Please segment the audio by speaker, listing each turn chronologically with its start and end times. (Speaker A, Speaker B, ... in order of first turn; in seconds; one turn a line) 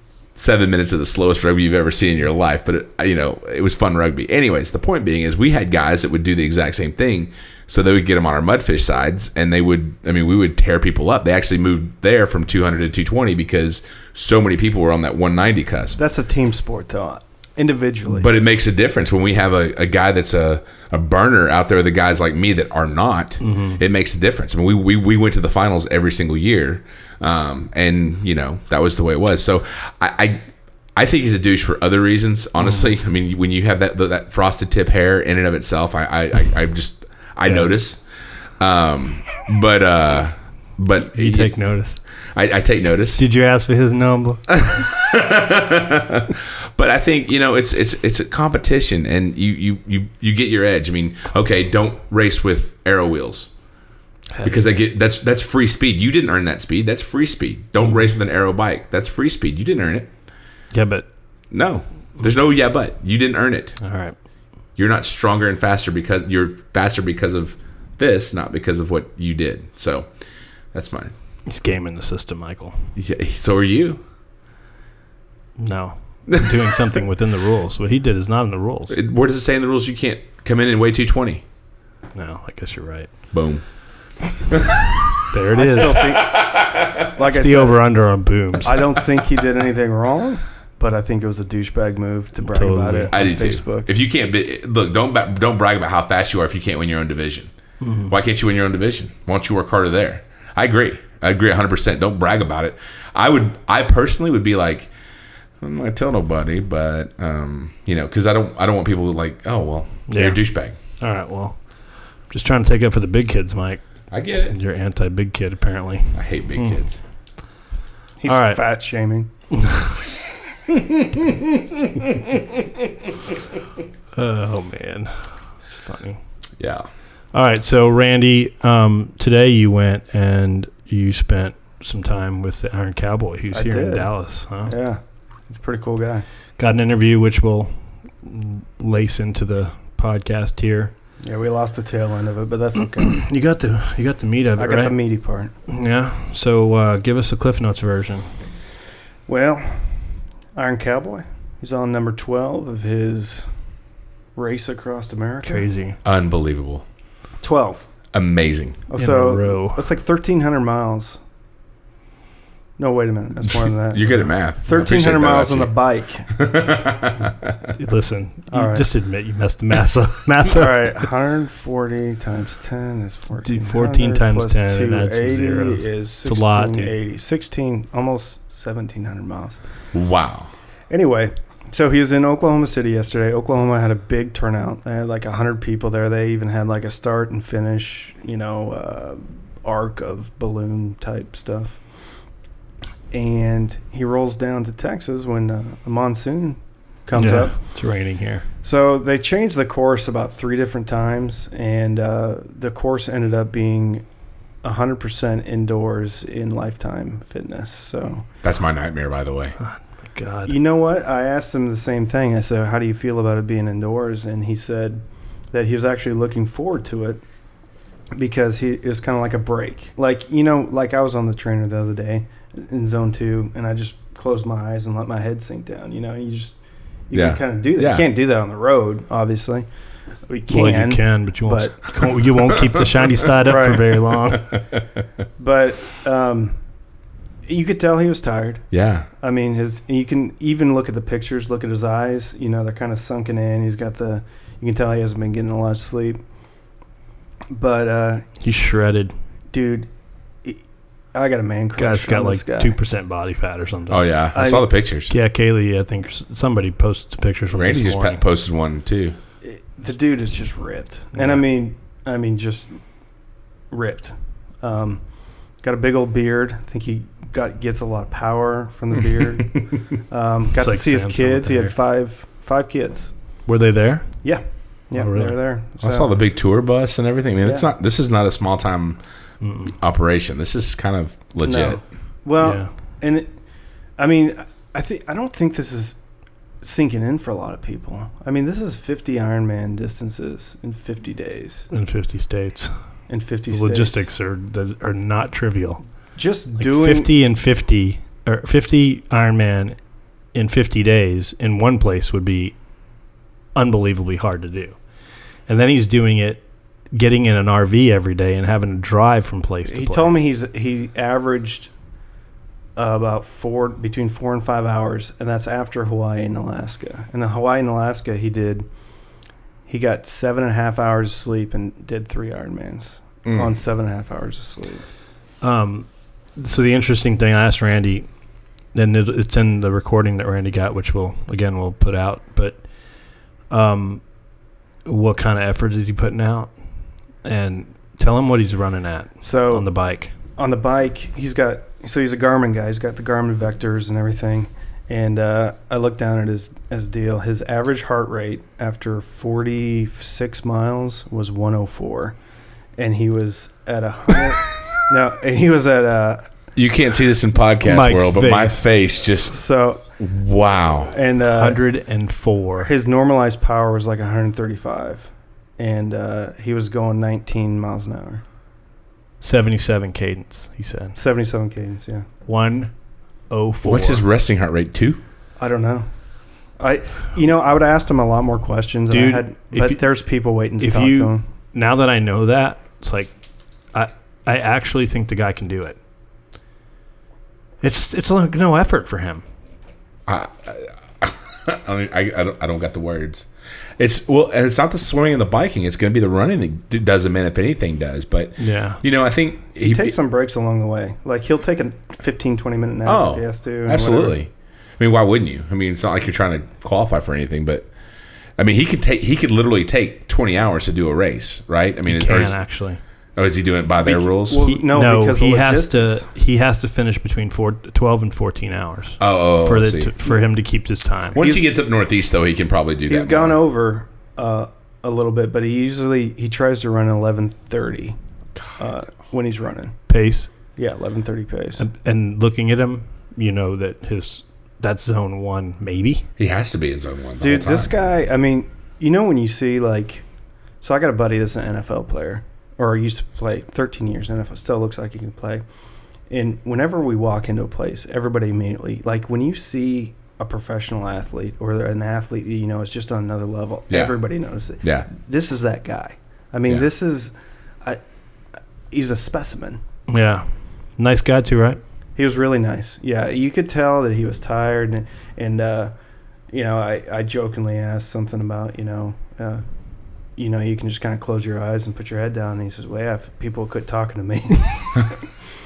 Speaker A: 0.3-16.0
Speaker B: 16.0-18.3
Speaker A: 18.1-38.0
Speaker C: 23.4-23.8
Speaker A: 38.6-41.6
Speaker C: 41.0-42.0
Speaker A: 42.4-43.2
Speaker C: 43.2-44.4
Speaker A: 44.5-53.5
Speaker C: 54.3-54.6
Speaker A: 54.4-60.1
Speaker C: 60.7-61.1
Speaker A: 61.5-63.8
Speaker C: 63.8-64.2
Speaker A: 64.8-70.1
Speaker A: 70.7-71.1
Speaker C: 71.5-72.9
Speaker A: 73.0-74.0
Speaker C: 75.6-79.0
Speaker A: 78.9-81.4
Speaker C: 82.2-83.1
Speaker A: 83.3-83.7
Speaker A: 84.5-84.9
Speaker C: 85.3-86.2
Speaker B: 85.5-87.8
Speaker A: 86.0-87.0
Speaker C: 87.3-88.9
Speaker B: 88.6-93.9
Speaker C: 92.4-93.1
Speaker A: 93.1-97.5
Speaker C: 97.8-98.1
Speaker A: 98.1-104.9
Speaker A: 105.6-110.8
Speaker C: 110.1-110.4
Speaker C: 111.0-111.6
Speaker C: 112.3-113.8
Speaker A: 114.1-114.6
Speaker C: 114.5-116.8
Speaker A: 116.1-117.0
Speaker B: 118.2-119.3
Speaker C: 118.3-118.6
Speaker C: 119.6-120.0
Speaker C: 124.2-126.2
Speaker A: 126.6-126.9
Speaker C: 127.3-134.7
Speaker B: 133.5-136.2
Speaker C: 136.6-140.9
Speaker B: 141.2-143.2
Speaker C: 143.0-145.0
Speaker B: 144.6-145.5
Speaker C: 145.7-148.3
Speaker B: 149.3-153.5
Speaker B: 154.4-155.7
Speaker C: 155.5-156.0
Speaker A: 156.0-156.8
Speaker B: 157.4-157.9
Speaker A: 158.1-158.8
Speaker B: 158.9-161.2
Speaker C: 159.0-159.9
Speaker B: 162.8-164.1
Speaker A: 163.9-165.7
Speaker B: 164.6-166.3
Speaker A: 166.3-167.6
Speaker C: 167.7-171.1
Speaker B: 168.5-168.9
Speaker B: 170.5-179.6
Speaker C: 173.3-176.9
Speaker A: 179.9-180.5
Speaker B: 180.9-191.8
Speaker B: 193.1-197.7
Speaker C: 197.2-198.5
Speaker B: 198.6-204.1
Speaker B: 204.6-208.3
Speaker A: 208.4-209.6
Speaker C: 209.6-210.6
Speaker B: 210.5-217.2
Speaker B: 218.2-226.6
Speaker B: 227.1-229.7
Speaker A: 227.1-228.1
Speaker B: 230.3-231.9
Speaker C: 230.5-234.6
Speaker B: 233.4-233.9
Speaker B: 235.4-236.6
Speaker B: 237.4-238.6
Speaker A: 238.7-239.1
Speaker B: 239.2-246.2
Speaker B: 247.5-248.3
Speaker C: 248.4-249.1
Speaker B: 249.5-249.9
Speaker B: 251.1-252.8
Speaker C: 251.8-254.1
Speaker A: 253.9-255.1
Speaker B: 254.3-254.7
Speaker C: 255.1-258.2
Speaker A: 257.6-259.2
Speaker B: 259.4-262.8
Speaker C: 261.1-261.4
Speaker B: 263.7-265.0
Speaker B: 265.6-273.1
Speaker C: 270.6-271.7
Speaker C: 273.5-274.2
Speaker B: 274.2-276.1
Speaker C: 274.9-275.4
Speaker A: 275.8-279.0
Speaker B: 277.4-277.7
Speaker C: 279.4-279.8
Speaker A: 279.7-281.8
Speaker B: 281.4-283.4
Speaker C: 282.4-282.7
Speaker B: 284.0-286.0
Speaker B: 286.6-291.7
Speaker C: 291.7-292.8
Speaker B: 293.1-294.1
Speaker C: 293.5-295.8
Speaker B: 296.2-297.1
Speaker C: 296.6-299.8
Speaker C: 300.3-302.6
Speaker C: 303.6-304.8
Speaker C: 305.5-310.2
Speaker B: 309.7-311.7
Speaker B: 312.8-318.7
Speaker B: 319.7-324.9
Speaker A: 323.2-323.5
Speaker C: 325.4-328.1
Speaker C: 328.7-332.6
Speaker C: 333.5-334.0
Speaker C: 334.9-336.5
Speaker C: 337.2-340.1
Speaker B: 339.2-339.7
Speaker B: 340.4-352.2
Speaker B: 352.8-356.3
Speaker A: 356.6-359.4
Speaker C: 357.6-358.6
Speaker B: 359.3-359.8
Speaker A: 360.0-360.9
Speaker B: 360.9-361.6
Speaker C: 361.3-362.7
Speaker B: 362.6-368.2
Speaker C: 369.2-371.0
Speaker B: 370.9-372.1
Speaker C: 372.3-372.7
Speaker C: 373.3-374.0
Speaker A: 373.6-375.0
Speaker B: 375.4-375.9
Speaker B: 376.6-381.2
Speaker C: 378.9-379.8
Speaker C: 380.6-383.1
Speaker C: 383.7-385.8
Speaker C: 387.6-389.2
Speaker A: 390.1-393.2
Speaker A: 393.8-399.9
Speaker C: 398.4-398.8
Speaker B: 399.6-404.2
Speaker A: 402.9-407.7
Speaker A: 408.4-412.4
Speaker C: 411.9-412.8
Speaker A: 413.2-414.5
Speaker B: 413.8-416.1
Speaker C: 414.4-421.2
Speaker A: 419.0-419.9
Speaker A: 421.1-423.4
Speaker B: 421.2-421.4
Speaker B: 422.9-428.0
Speaker B: 428.6-429.8
Speaker C: 429.9-430.3
Speaker B: 430.6-431.6
Speaker C: 431.6-436.1
Speaker A: 436.2-437.7
Speaker B: 437.2-440.1
Speaker B: 440.6-445.4
Speaker B: 446.1-457.8
Speaker A: 453.7-454.0
Speaker A: 454.6-454.9
Speaker B: 458.7-459.6
Speaker C: 459.9-461.6
Speaker B: 462.0-465.7
Speaker B: 466.3-469.4
Speaker B: 470.2-475.1